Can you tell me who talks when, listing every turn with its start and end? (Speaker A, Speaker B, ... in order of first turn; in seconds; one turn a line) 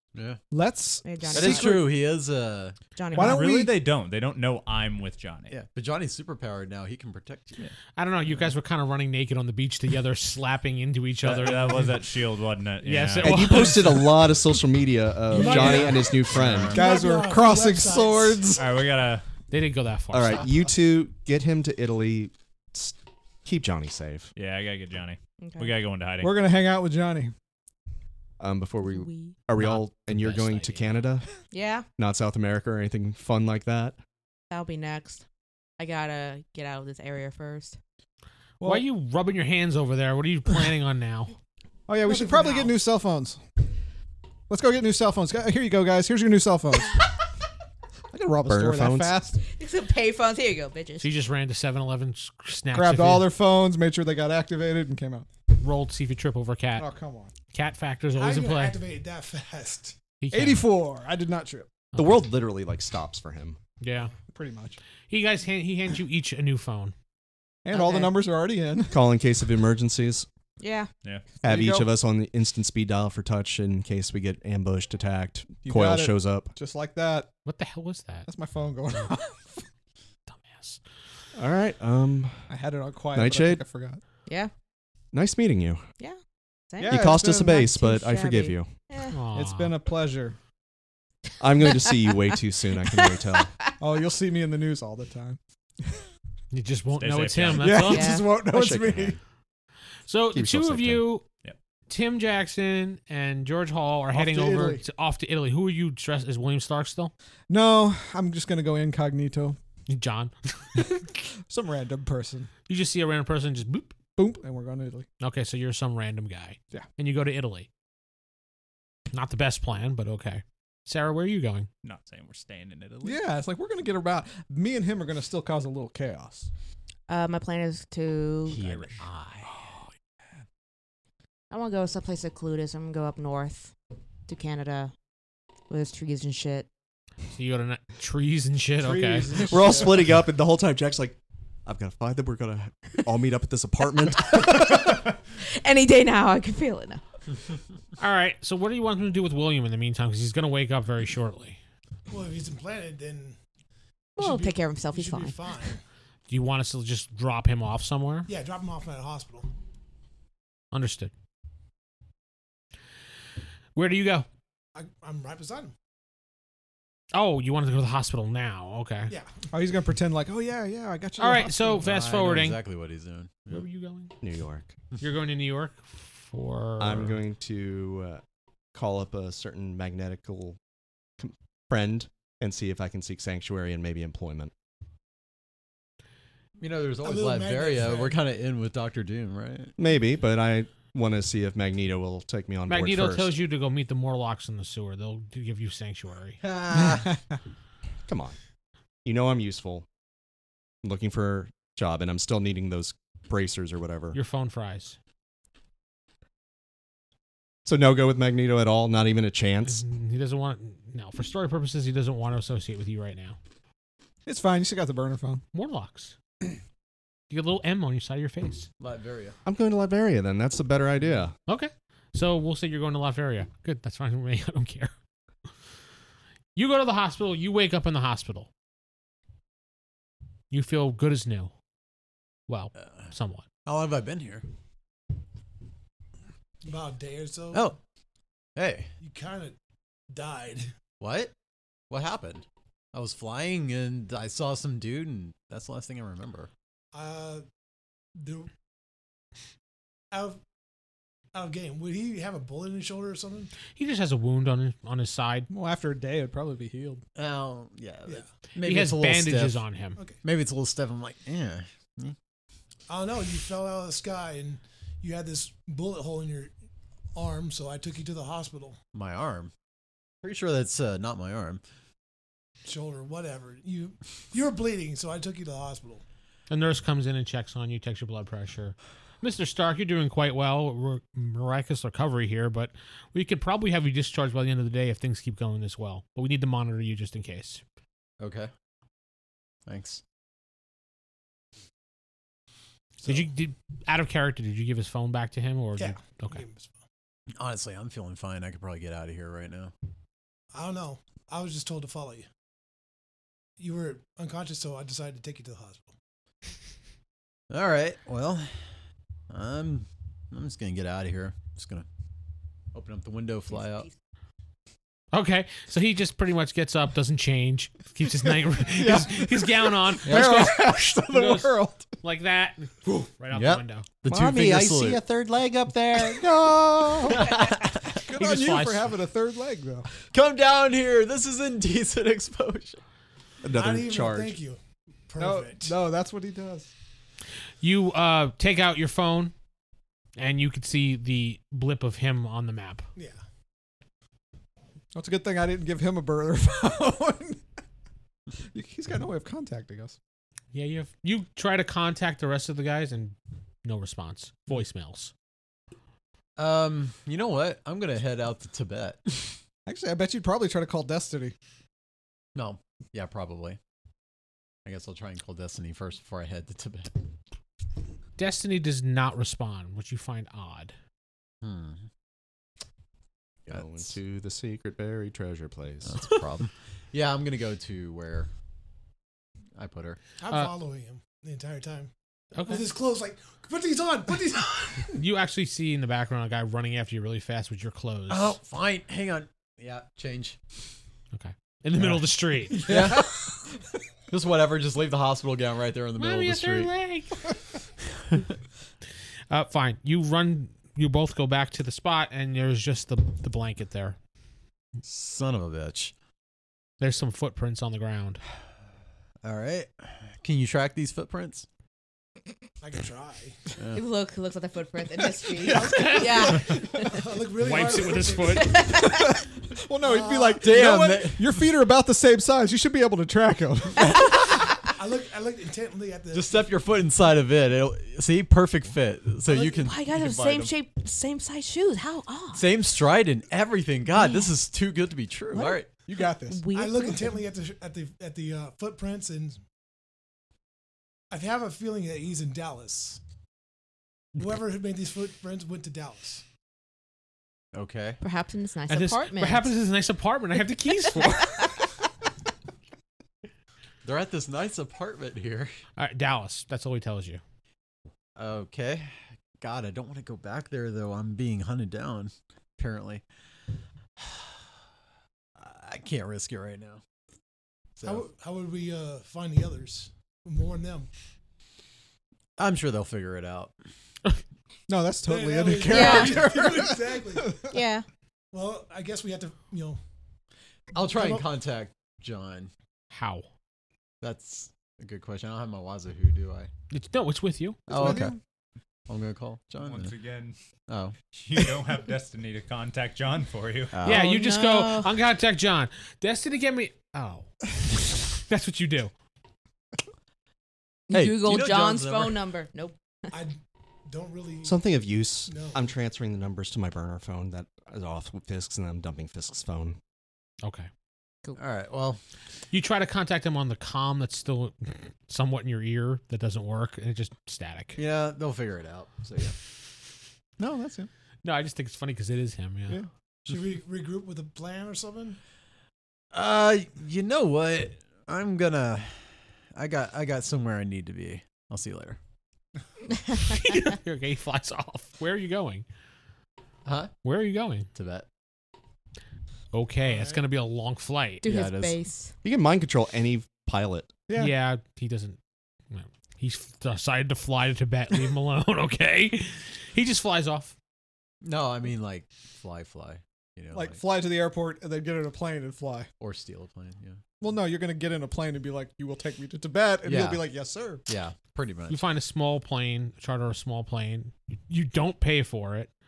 Speaker A: 0.1-0.4
Speaker B: 0.5-1.8
Speaker C: 1.0-1.9
Speaker A: 1.3-2.8
Speaker C: 3.0-3.5
Speaker D: 3.1-5.6
Speaker B: 3.1-3.8
Speaker A: 5.5-7.6
Speaker E: 8.0-12.0
Speaker D: 11.2-13.6
Speaker E: 12.8-14.2
Speaker F: 13.2-16.8
Speaker G: 15.3-16.1
Speaker D: 15.4-16.9
Speaker G: 16.7-18.5
Speaker B: 16.7-18.8
Speaker D: 18.5-19.3
Speaker E: 19.5-20.5
Speaker F: 20.1-24.3
Speaker D: 24.4-26.4
Speaker C: 25.4-25.8
Speaker B: 26.2-27.3
Speaker F: 28.4-31.3
Speaker C: 28.8-29.4
Speaker E: 29.6-31.0
Speaker C: 31.5-31.9
Speaker F: 32.0-34.0
Speaker C: 34.5-35.2
Speaker C: 35.8-37.8
Speaker B: 38.6-38.9
Speaker E: 38.6-41.3
Speaker B: 41.9-43.4
Speaker G: 42.0-42.8
Speaker B: 44.5-47.0
Speaker B: 48.1-49.4
Speaker F: 48.1-49.2
Speaker C: 49.4-51.1
Speaker E: 51.0-53.3
Speaker B: 52.7-55.3
Speaker E: 55.6-56.9
Speaker B: 56.8-57.3
Speaker E: 57.5-58.8
Speaker G: 58.1-60.0
Speaker E: 60.2-60.7
Speaker B: 60.3-61.7
Speaker E: 61.9-62.2
Speaker F: 62.0-63.6
Speaker E: 63.8-64.1
Speaker B: 64.3-64.8
Speaker E: 65.1-66.9
Speaker B: 67.7-69.0
Speaker C: 67.7-68.2
Speaker F: 68.9-70.3
Speaker C: 70.6-70.9
Speaker B: 71.4-71.9
Speaker F: 71.4-76.5
Speaker B: 75.7-77.3
Speaker E: 77.5-78.3
Speaker B: 78.3-79.6
Speaker E: 80.3-80.8
Speaker F: 81.3-82.5
Speaker B: 82.5-84.0
Speaker F: 83.1-83.6
Speaker C: 84.3-84.5
Speaker F: 85.1-85.8
Speaker C: 86.7-89.2
Speaker B: 86.8-87.7
Speaker F: 86.8-88.7
Speaker E: 89.1-89.7
Speaker B: 89.3-90.4
Speaker F: 91.4-93.5
Speaker B: 93.8-95.9
Speaker E: 96.5-98.2
Speaker D: 96.9-97.9
Speaker B: 97.6-99.2
Speaker C: 97.8-98.4
Speaker F: 98.4-99.2
Speaker E: 100.1-101.3
Speaker F: 100.3-101.1
Speaker E: 101.9-107.1
Speaker B: 104.1-104.8
Speaker B: 107.5-109.6
Speaker E: 109.9-110.9
Speaker B: 110.8-112.5
Speaker E: 112.7-113.9
Speaker B: 114.2-115.1
Speaker E: 115.2-117.7
Speaker E: 119.1-121.7
Speaker D: 121.8-123.2
Speaker B: 123.0-126.5
Speaker C: 127.1-128.7
Speaker A: 128.5-129.5
Speaker C: 131.5-133.7
Speaker C: 134.3-134.9
Speaker C: 135.7-136.7
Speaker E: 137.3-139.4
Speaker B: 138.8-140.2
Speaker F: 139.5-144.9
Speaker C: 144.3-147.0
Speaker E: 148.0-151.6
Speaker G: 152.1-153.4
Speaker C: 154.2-155.4
Speaker G: 154.2-155.8
Speaker E: 156.3-158.3
Speaker G: 158.3-159.5
Speaker E: 160.7-161.1
Speaker E: 163.8-164.3
Speaker G: 164.8-165.7
Speaker E: 167.1-169.1
Speaker G: 169.1-169.5
Speaker B: 169.5-171.9
Speaker E: 171.2-172.6
Speaker A: 171.8-173.6
Speaker E: 173.5-174.2
Speaker F: 174.2-174.7
Speaker E: 175.0-177.2
Speaker F: 176.8-178.2
Speaker F: 178.7-180.6
Speaker F: 181.2-184.5
Speaker A: 186.6-189.7
Speaker G: 187.0-188.2
Speaker F: 189.8-193.4
Speaker E: 192.7-196.4
Speaker A: 196.4-197.2
Speaker B: 196.8-197.1
Speaker F: 198.1-198.4
Speaker F: 199.1-199.9
Speaker F: 200.8-204.2
Speaker E: 204.1-205.0
Speaker F: 207.7-209.8
Speaker E: 209.7-213.4
Speaker B: 214.2-215.4
Speaker E: 215.5-216.2
Speaker E: 217.3-218.7
Speaker A: 218.8-219.4
Speaker F: 219.4-221.3
Speaker E: 221.5-224.9
Speaker E: 226.6-228.5
Speaker E: 230.5-231.5
Speaker E: 232.5-233.4
Speaker A: 232.8-233.1
Speaker A: 233.7-234.4
Speaker G: 236.6-237.7
Speaker A: 237.5-237.8
Speaker A: 238.6-238.9
Speaker G: 239.0-239.6
Speaker G: 240.1-240.7
Speaker A: 241.0-241.3
Speaker A: 241.9-246.5
Speaker G: 246.9-247.5
Speaker G: 248.2-248.5
Speaker G: 250.1-250.4
Speaker G: 251.3-253.5
Speaker E: 253.8-255.5
Speaker B: 255.5-257.0
Speaker A: 257.2-259.6
Speaker E: 258.6-260.0
Speaker A: 260.2-262.2
Speaker G: 262.9-266.5
Speaker G: 267.1-268.8
Speaker A: 268.9-269.5
Speaker A: 270.2-271.6
Speaker G: 272.6-276.0
Speaker E: 276.5-287.6
Speaker A: 288.2-288.5
Speaker A: 289.7-290.0
Speaker E: 293.0-296.4
Speaker G: 295.8-296.8
Speaker A: 297.4-299.7
Speaker G: 300.5-302.3
Speaker G: 303.6-305.9
Speaker A: 307.5-308.6
Speaker A: 309.3-311.9
Speaker A: 312.7-313.9
Speaker C: 313.6-313.9
Speaker E: 315.1-323.9
Speaker B: 318.6-321.9
Speaker A: 320.1-320.5
Speaker A: 323.3-325.0
Speaker F: 324.1-326.3
Speaker B: 326.0-327.3
Speaker A: 327.1-328.0
Speaker B: 327.9-329.9
Speaker E: 328.1-328.9
Speaker A: 330.1-332.8
Speaker F: 333.4-334.4
Speaker G: 333.5-335.8
Speaker B: 335.2-336.7
Speaker E: 337.6-339.3
Speaker E: 340.2-342.9
Speaker G: 343.0-343.2
Speaker B: 344.9-347.4
Speaker B: 348.5-350.0
Speaker E: 350.5-355.1
Speaker A: 356.4-359.4
Speaker B: 359.7-361.3
Speaker A: 362.4-363.6
Speaker A: 364.7-367.0
Speaker E: 368.2-370.7
Speaker A: 371.4-371.9
Speaker A: 373.5-373.9
Speaker F: 373.5-376.1
Speaker A: 375.9-378.3
Speaker A: 379.6-380.0
Speaker G: 380.2-385.0
Speaker E: 382.4-382.6
Speaker E: 384.9-388.4
Speaker A: 388.1-390.4
Speaker E: 391.1-392.7
Speaker A: 392.6-393.2
Speaker A: 394.1-396.7
Speaker E: 396.0-397.3
Speaker E: 399.3-404.0
Speaker A: 404.8-405.9
Speaker E: 406.8-408.2
Speaker A: 409.2-411.5
Speaker G: 412.6-413.4
Speaker C: 413.7-417.0
Speaker B: 415.4-416.8
Speaker E: 415.7-416.4
Speaker G: 416.4-418.6
Speaker E: 417.4-418.6
Speaker C: 418.3-419.2
Speaker B: 418.8-424.1
Speaker G: 419.8-420.5
Speaker A: 420.4-421.3
Speaker G: 424.7-426.4
Speaker A: 426.1-430.1
Speaker C: 429.4-432.4
Speaker D: 430.1-430.4
Speaker A: 432.3-435.7
Speaker C: 434.0-434.3
Speaker C: 435.3-435.6
Speaker B: 435.9-436.4
Speaker C: 436.3-437.2
Speaker G: 436.5-439.4
Speaker G: 441.1-443.0
Speaker G: 444.2-446.2
Speaker A: 447.5-448.0
Speaker C: 448.0-449.5
Speaker E: 448.7-451.3
Speaker C: 451.0-451.5
Speaker A: 453.8-455.5
Speaker E: 455.8-457.2
Speaker A: 458.2-463.0
Speaker A: 464.0-464.4
Speaker A: 465.4-466.8
Speaker A: 467.8-468.1
Speaker G: 467.8-470.9
Speaker A: 472.4-473.6
Speaker B: 474.7-477.3
Speaker G: 475.1-477.4
Speaker C: 475.7-476.2
Speaker C: 477.5-477.9
Speaker G: 478.3-479.8
Speaker A: 480.7-482.5
Speaker G: 480.8-481.3
Speaker E: 482.9-483.3
Speaker A: 484.0-486.5
Speaker E: 486.7-487.7
Speaker A: 487.7-488.1
Speaker B: 487.7-488.2
Speaker A: 488.9-489.9
Speaker D: 489.6-490.4
Speaker A: 490.7-491.0
Speaker D: 491.1-493.8
Speaker A: 493.7-494.1
Speaker C: 493.9-495.0
Speaker E: 493.9-498.9
Speaker C: 500.9-502.8
Speaker A: 500.9-502.3
Speaker G: 503.1-504.6
Speaker F: 504.4-509.8
Speaker G: 505.3-505.7
Speaker E: 510.4-510.7
Speaker A: 511.4-512.0
Speaker E: 512.5-517.8
Speaker A: 517.8-519.4
Speaker B: 520.4-520.9
Speaker E: 521.2-522.8
Speaker G: 523.3-525.2
Speaker A: 526.1-532.0
Speaker E: 533.2-535.7
Speaker A: 536.6-536.9
Speaker E: 537.0-537.7
Speaker A: 537.8-538.1
Speaker E: 539.5-541.3
Speaker G: 539.9-540.2
Speaker C: 541.2-542.1
Speaker A: 541.3-541.8
Speaker F: 542.2-543.9
Speaker B: 544.1-544.3
Speaker E: 544.2-545.2
Speaker E: 545.7-550.5
Speaker A: 551.2-553.8
Speaker B: 553.5-555.9
Speaker A: 556.0-557.0
Speaker B: 557.2-560.8
Speaker A: 559.8-560.2
Speaker A: 560.9-561.9
Speaker E: 561.7-565.7